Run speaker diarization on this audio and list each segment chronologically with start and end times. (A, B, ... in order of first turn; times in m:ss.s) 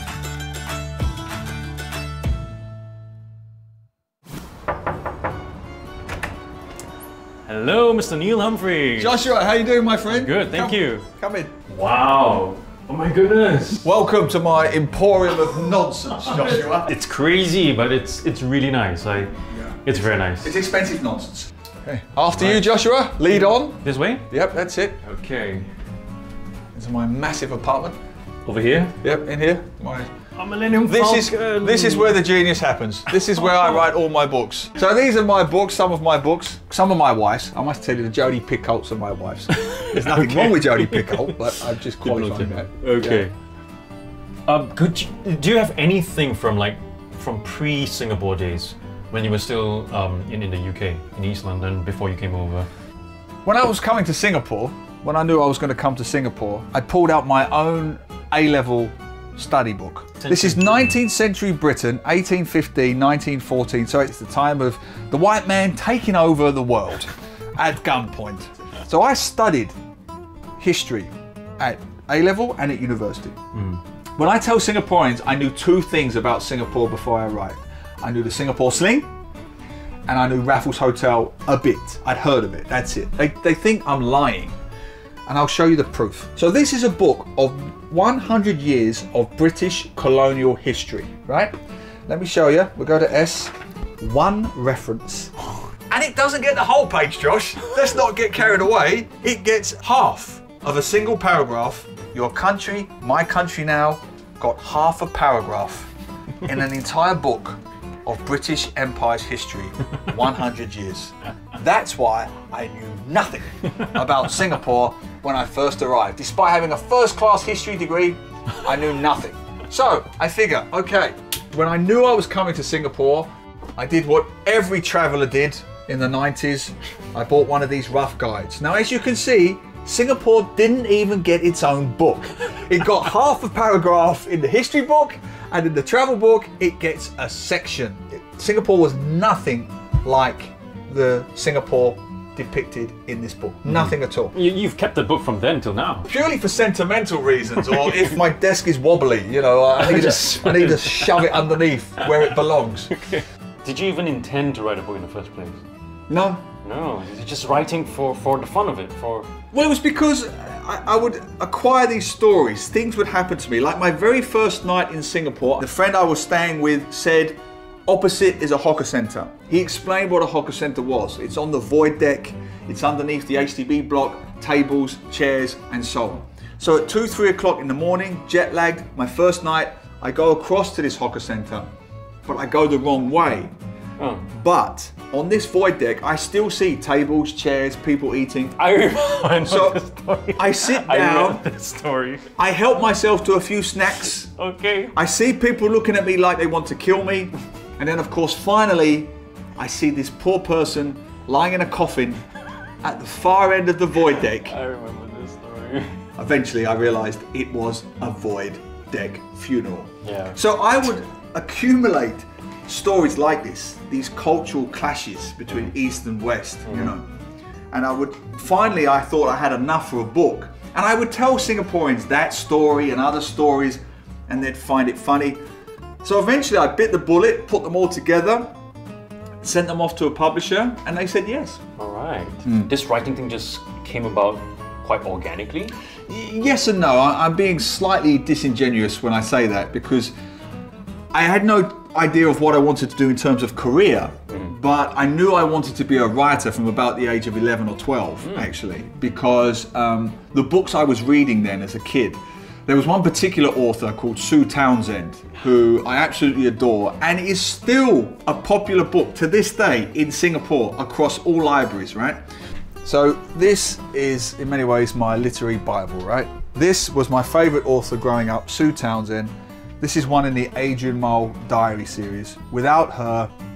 0:07.5-0:09.3 A
0:09.0-0:11.5 B
0:10.1-0:11.0 A
0:11.7-0:13.8 A
0:13.8-0:16.9 B
0:16.4-0:19.3 A
0:19.5-0:19.8 B
0:19.8-0:20.5 A
0:20.3-0:25.0 B
0:22.3-0:22.7 A
0:23.3-0:24.3 A
0:25.0-0:25.7 A
0:26.7-0:28.0 B
0:28.4-0:29.0 A
0:29.0-0:30.1 B
0:30.4-0:32.2 A
0:30.8-0:43.3 B
0:33.3-0:33.8 A
0:39.5-0:41.4 A
0:42.0-0:43.3 A
0:44.5-0:52.7 A
0:53.4-1:09.7 B
1:00.2-1:01.0 A
1:10.6-1:13.4 B
1:13.5-1:13.8 A
1:14.2-1:19.1 B
1:20.1-1:24.5 B
1:25.3-1:31.5 B
1:32.1-1:35.3 B
1:35.9-1:45.9 B
1:46.4-2:24.3 B
2:23.7-2:26.1 A
2:26.1-2:33.0 B
2:29.8-2:31.2 A
2:33.0-2:35.6 A
2:36.1-2:36.5 B
2:36.6-2:39.3 A
2:39.5-3:01.7 B
3:02.2-3:03.5 B
3:04.0-3:04.3 A
3:04.3-3:08.6 B
3:08.6-3:12.3 A
3:09.4-3:09.8 B
3:10.4-3:11.4 B
3:12.4-3:14.3 B
3:14.3-3:15.0 A
3:14.9-3:22.2 B
3:22.8-3:24.6 B
3:24.2-3:26.0 A
3:26.2-3:37.0 B
3:30.0-3:30.4 A
3:36.6-3:36.9 A
3:37.7-3:45.4 B
3:46.0-3:48.5 B
3:49.4-3:51.6 B
3:51.8-3:55.7 A
3:56.1-4:00.1 B
4:01.1-4:22.2 B
4:22.8-4:33.3 B